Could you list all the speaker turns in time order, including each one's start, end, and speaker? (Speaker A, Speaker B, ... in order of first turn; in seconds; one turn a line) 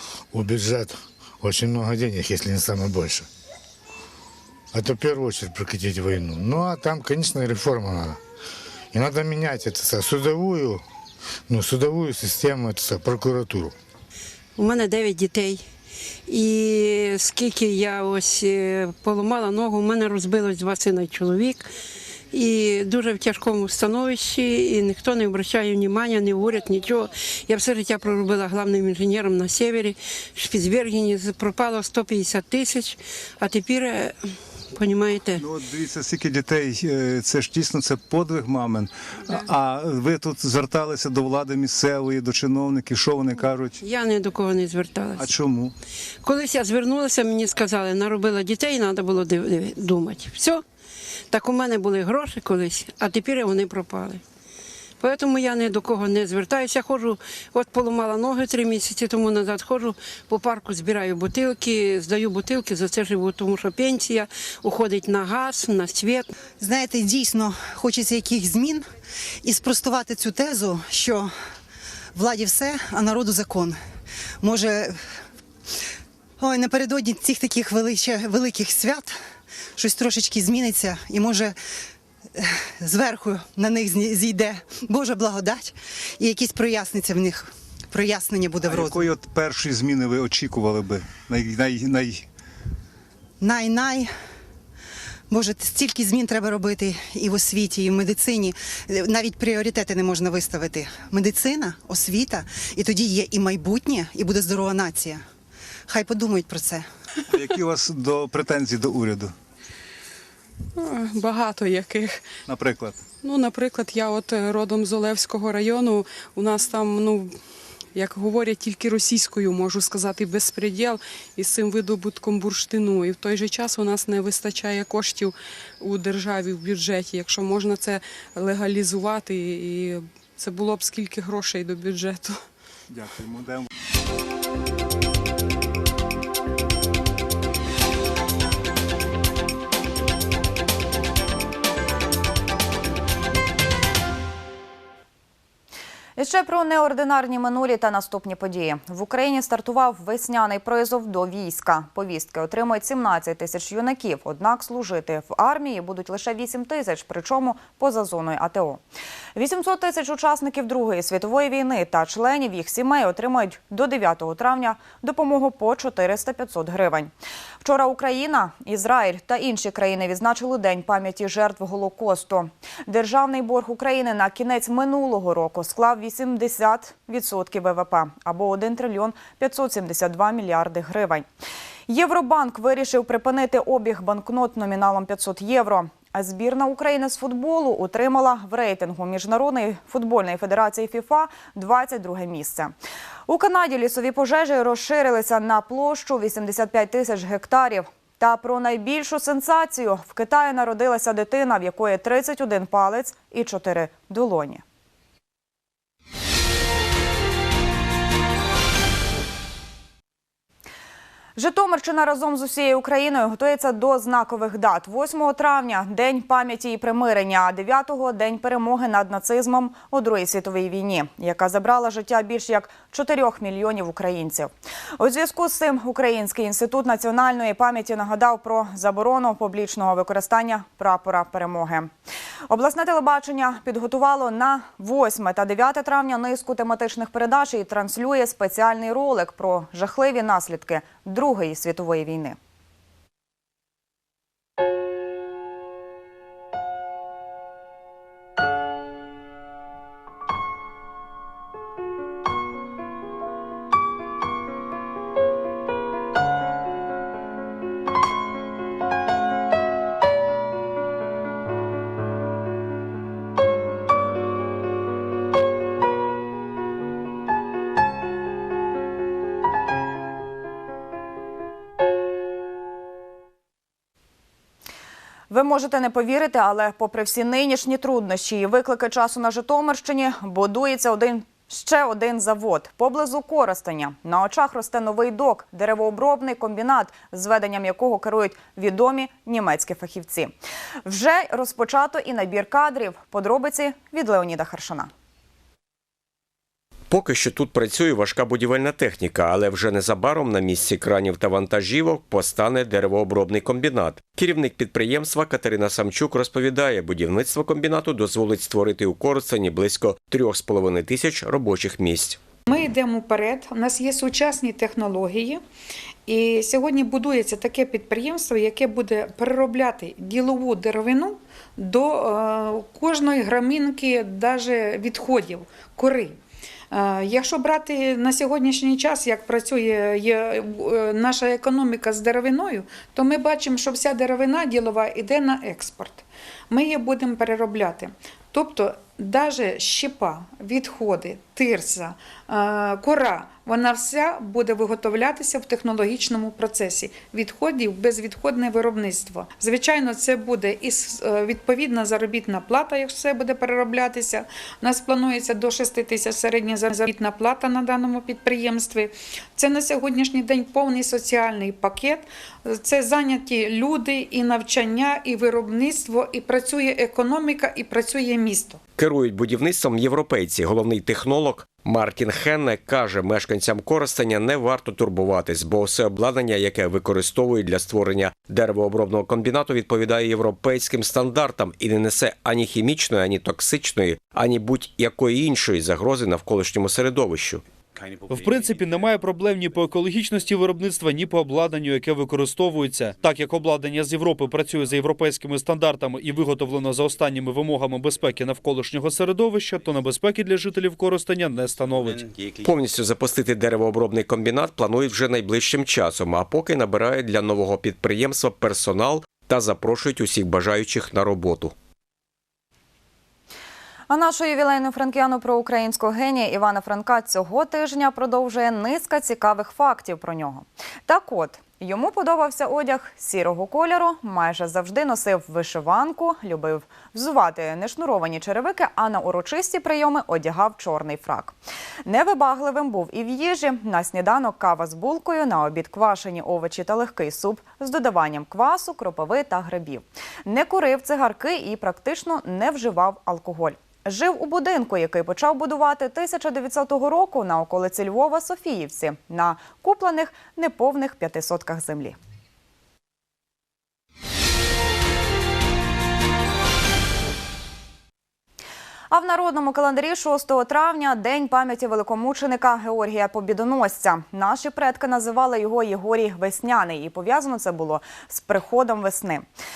Speaker A: 0.3-3.3
Speaker A: 4.7-8.2
Speaker A: 8.9-10.8
Speaker A: 11.5-13.7
Speaker B: 14.6-15.6
Speaker B: 16.3-21.7
Speaker B: 22.3-34.1
Speaker B: 34.7-35.4
Speaker C: 35.4-43.8
Speaker B: 43.8-45.3
Speaker C: 45.2-45.8
Speaker B: 46.2-50.6
Speaker B: 51.3-54.2
Speaker B: 55.0-66.3
Speaker D: 66.6-68.9
Speaker D: 69.4-71.3
Speaker D: 72.2-73.8
Speaker D: 74.4-75.0
Speaker D: 76.4-79.2
Speaker D: 79.8-81.5
Speaker D: 82.4-89.1
Speaker C: 88.6-92.2
Speaker D: 93.4-94.1
Speaker D: 95.3-105.2
Speaker D: 105.9-106.9
Speaker C: 107.3-109.3
Speaker E: 110.8-112.3
Speaker C: 112.5-113.0
Speaker E: 113.2-117.4
Speaker E: 117.9-132.4
Speaker C: 132.9-133.7
Speaker F: 146.2-158.8
Speaker F: 159.3-181.2
Speaker F: 181.9-192.7
Speaker F: 193.3-204.6
Speaker F: 211.4-231.9
Speaker F: 232.5-242.4
Speaker F: 275.3-290.3
Speaker F: 290.9-294.9
Speaker G: 296.9-312.2
Speaker H: 312.5-315.4
Speaker H: 316.1-326.2
Speaker H: 326.7-368.6
Speaker G: 368.8-387.4
Speaker I: 388.1-402.1
Speaker G: 402.3-411.5
Speaker F: 413.9-452.0
Speaker F: 458.9-469.3